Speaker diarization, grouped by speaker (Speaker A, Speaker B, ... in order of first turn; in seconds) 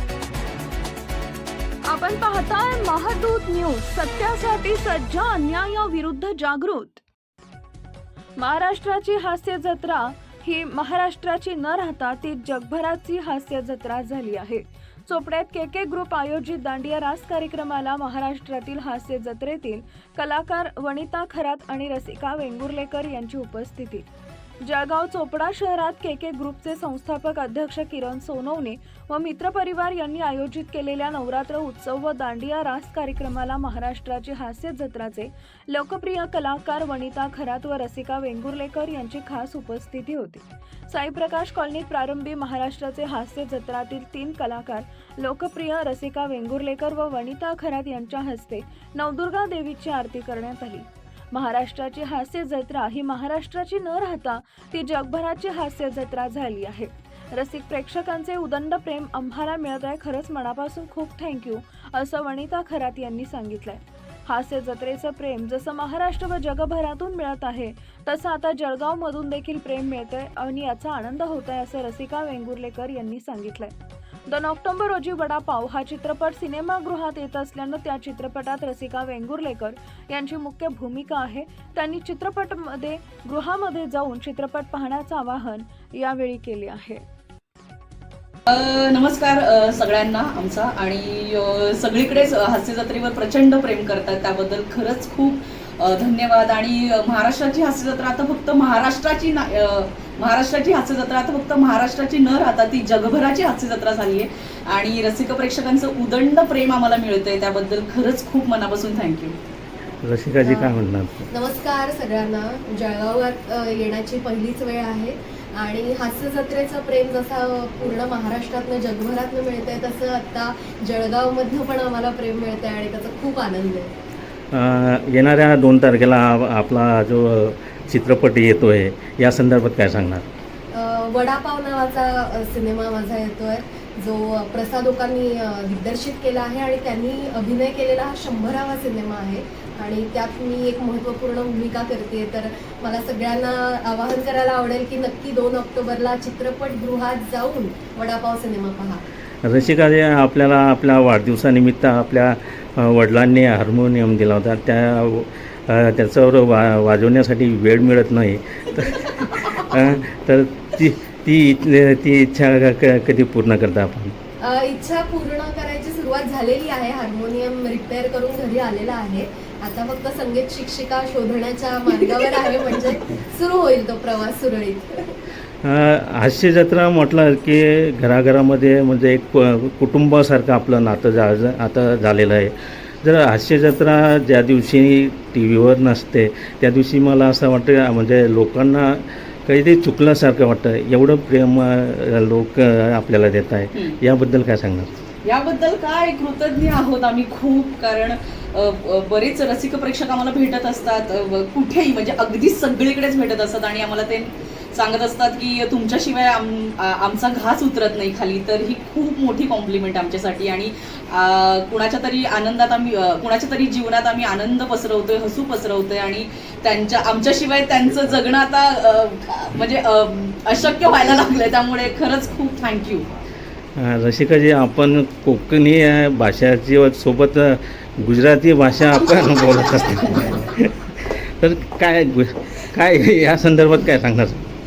Speaker A: 1.9-7.0, 8.4-24.1, 24.6-73.7, 74.3-87.0
Speaker B: 88.5-109.4, 195.2-223.1
Speaker C: 110.0-111.3, 124.5-130.2, 149.4-164.2, 175.6-194.9, 223.8-234.5
Speaker D: 110.4-110.8, 111.3-123.9, 130.7-149.0, 164.4-175.1